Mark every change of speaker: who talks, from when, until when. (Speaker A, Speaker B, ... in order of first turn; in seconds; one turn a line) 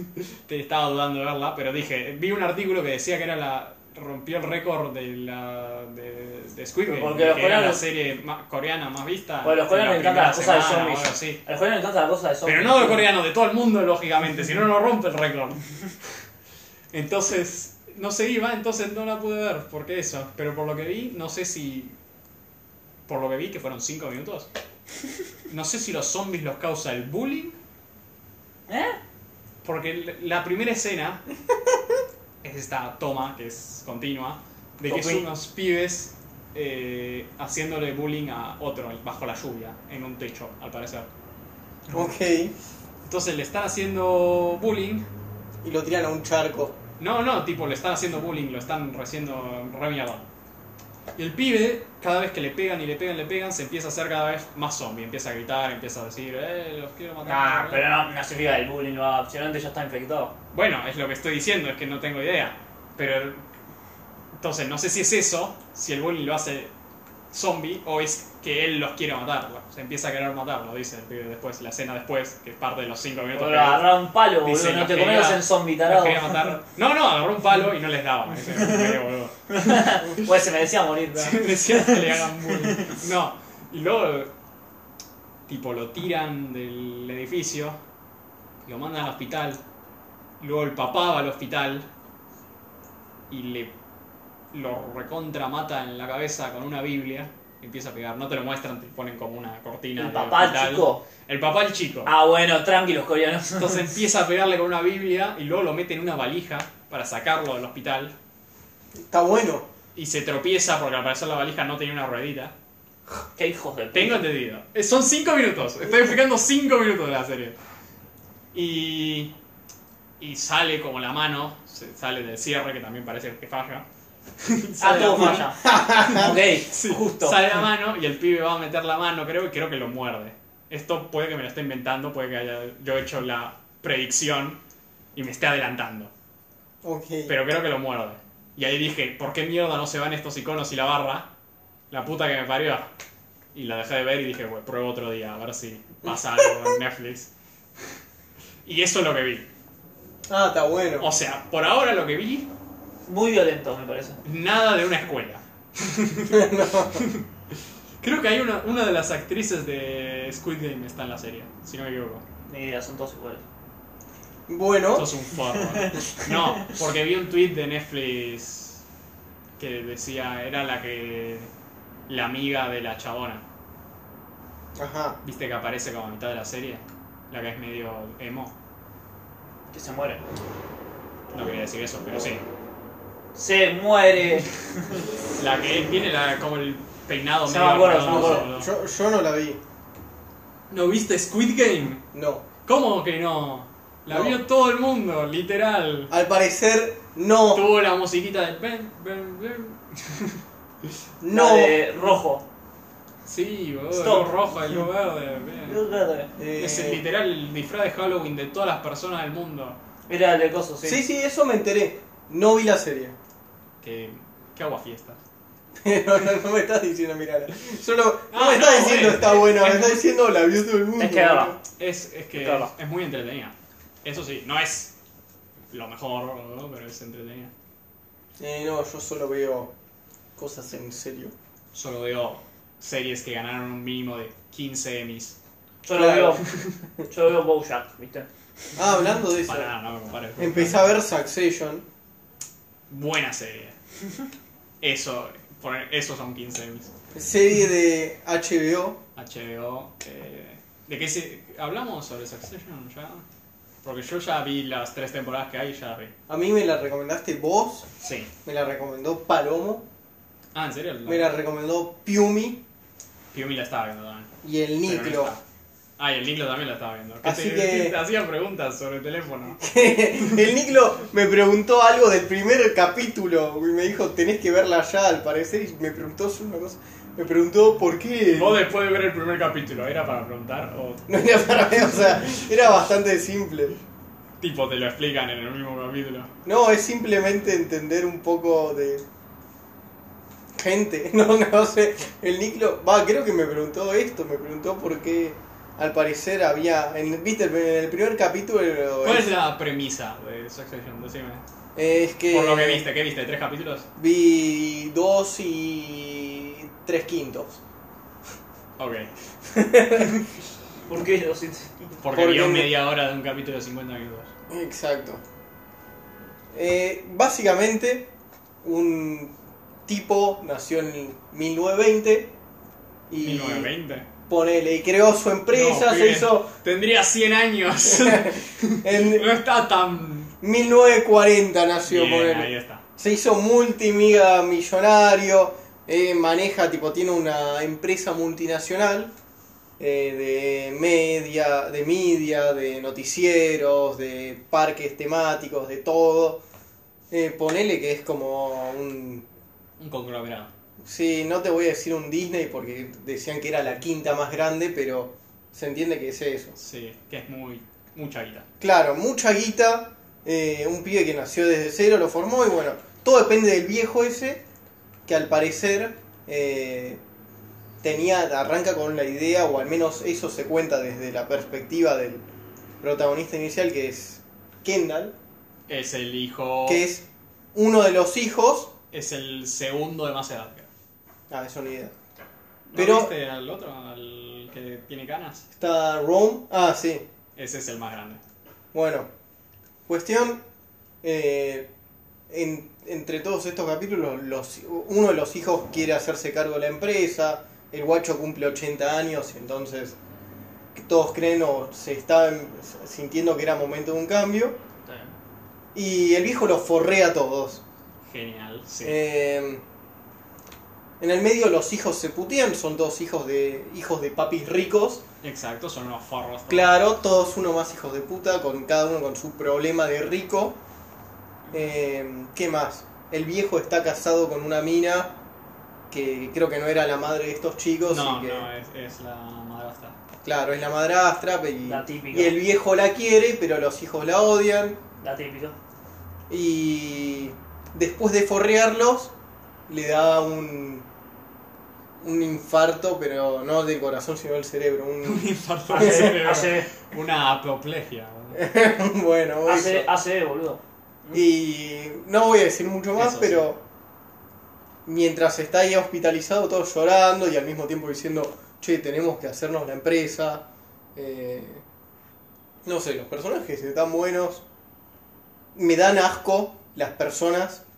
Speaker A: 0.1-11.4
Speaker B: 6.9-7.8
Speaker B: 9.4-13.0
Speaker A: 12.4-15.6
Speaker A: 16.9-21.9
Speaker A: 23.1-24.5
Speaker A: 25.5-27.6
Speaker B: 28.7-29.0
Speaker A: 29.6-31.2
Speaker A: 32.4-41.1
Speaker B: 34.9-35.2
Speaker C: 41.9-42.5
Speaker A: 43.0-45.1
Speaker C: 45.6-46.8
Speaker A: 47.0-50.2
Speaker A: 51.1-57.9
Speaker B: 57.2-60.3
Speaker A: 60.5-63.4
Speaker A: 64.4-66.7
Speaker A: 67.3-80.3
Speaker B: 73.3-76.6
Speaker B: 78.4-79.0
Speaker B: 79.5-83.0
Speaker A: 81.1-84.3
Speaker A: 85.5-87.8
Speaker A: 88.6-89.6
Speaker A: 90.4-91.9
Speaker A: 93.3-93.7
Speaker A: 94.5-102.1
Speaker B: 100.0-101.0
Speaker B: 102.0-103.8
Speaker A: 103.6-108.1
Speaker C: 109.0-109.7
Speaker A: 109.9-112.5
Speaker B: 113.3-114.2
Speaker A: 113.9-117.6
Speaker A: 118.5-119.3
Speaker A: 120.2-123.8
Speaker A: 124.4-134.6
Speaker B: 124.8-127.6
Speaker C: 125.2-126.3
Speaker A: 135.1-136.1
Speaker C: 136.8-137.4
Speaker A: 137.3-141.3
Speaker A: 141.9-142.9
Speaker A: 143.5-148.0
Speaker A: 148.6-149.5
Speaker C: 150.3-151.1
Speaker A: 151.0-152.5
Speaker B: 153.1-154.2
Speaker A: 154.2-157.2
Speaker C: 156.3-157.1
Speaker A: 158.0-162.2
Speaker B: 162.5-163.4
Speaker C: 164.5-165.2
Speaker A: 164.9-168.8
Speaker B: 165.4-166.7
Speaker A: 169.6-171.5
Speaker A: 172.1-173.4
Speaker C: 174.8-175.2
Speaker A: 175.2-178.5
Speaker B: 179.7-180.2
Speaker A: 181.3-182.4
Speaker B: 183.3-185.1
Speaker A: 185.4-188.7
Speaker B: 187.5-188.5
Speaker C: 188.0-189.6
Speaker A: 190.7-192.0
Speaker C: 192.1-192.4
Speaker A: 192.6-196.1
Speaker C: 194.1-194.4
Speaker C: 196.1-197.7
Speaker A: 197.5-200.9
Speaker C: 201.2-202.0
Speaker B: 201.3-202.4
Speaker A: 203.2-205.8
Speaker B: 203.9-204.8
Speaker B: 205.7-206.3
Speaker C: 206.4-207.0
Speaker A: 206.5-209.8
Speaker B: 210.1-211.0
Speaker C: 210.8-213.2
Speaker A: 213.8-215.2
Speaker C: 215.8-221.6
Speaker A: 218.3-220.0
Speaker B: 221.0-221.6
Speaker A: 221.8-224.9
Speaker B: 222.3-222.7
Speaker A: 225.7-227.5
Speaker C: 228.4-229.7
Speaker C: 230.3-231.3
Speaker A: 231.7-235.4
Speaker B: 235.8-238.3
Speaker C: 235.9-236.4
Speaker C: 238.8-239.7
Speaker A: 239.4-240.9
Speaker C: 240.4-241.8
Speaker A: 242.9-243.7
Speaker A: 244.8-246.9
Speaker C: 247.1-249.0
Speaker A: 249.2-253.2
Speaker A: 253.8-256.1
Speaker C: 256.3-257.9
Speaker A: 258.0-258.3
Speaker C: 258.4-259.8
Speaker A: 260.5-261.3
Speaker C: 261.1-262.6
Speaker A: 263.3-264.3
Speaker C: 264.4-265.3
Speaker A: 264.8-265.4
Speaker A: 266.0-270.4
Speaker C: 267.2-268.0
Speaker C: 269.6-278.6
Speaker A: 278.3-281.1
Speaker C: 281.1-283.8
Speaker A: 284.4-286.3
Speaker C: 286.4-289.0
Speaker C: 290.5-299.3
Speaker A: 299.0-301.4
Speaker C: 301.8-302.9
Speaker A: 302.3-303.9
Speaker C: 303.9-307.6
Speaker A: 308.8-309.1
Speaker C: 309.5-310.2
Speaker B: 310.9-312.0
Speaker A: 312.0-314.3
Speaker C: 312.1-312.7
Speaker C: 314.5-315.2
Speaker C: 316.5-318.1
Speaker C: 318.6-319.3
Speaker C: 319.9-322.3
Speaker C: 323.1-323.7
Speaker A: 323.2-324.1
Speaker C: 324.3-326.5
Speaker A: 325.5-330.3
Speaker C: 327.9-329.3
Speaker C: 330.4-339.1
Speaker A: 331.9-332.8
Speaker C: 339.8-346.4
Speaker C: 347.1-349.2
Speaker A: 349.8-350.5
Speaker C: 350.8-356.6
Speaker A: 356.6-358.5
Speaker C: 358.6-364.4
Speaker C: 365.1-367.0
Speaker C: 367.8-372.2
Speaker C: 372.8-375.1
Speaker A: 375.7-376.8
Speaker C: 376.6-378.7
Speaker A: 378.9-380.7
Speaker C: 381.3-381.9
Speaker A: 382.7-385.4
Speaker C: 382.7-383.1
Speaker C: 385.6-387.0
Speaker A: 387.4-388.2
Speaker C: 388.7-389.1
Speaker C: 389.9-390.4
Speaker C: 391.0-391.7
Speaker C: 392.3-400.0
Speaker C: 400.7-404.6
Speaker B: 404.8-405.1
Speaker C: 405.7-407.6
Speaker A: 408.1-409.0
Speaker C: 408.8-409.6
Speaker C: 411.0-415.0
Speaker A: 415.2-416.8
Speaker C: 416.5-420.6
Speaker C: 421.5-425.1
Speaker C: 425.9-428.5
Speaker A: 427.9-429.9
Speaker C: 430.2-434.8
Speaker B: 431.6-432.4
Speaker B: 435.0-435.6
Speaker C: 436.3-439.1
Speaker C: 439.7-440.9
Speaker C: 442.0-446.1
Speaker A: 445.0-448.4
Speaker B: 445.7-446.7
Speaker C: 448.3-449.9
Speaker B: 449.5-450.6
Speaker C: 451.1-453.6
Speaker A: 453.0-453.5
Speaker C: 454.9-460.4
Speaker C: 460.9-461.6
Speaker C: 462.6-464.4
Speaker C: 465.5-467.6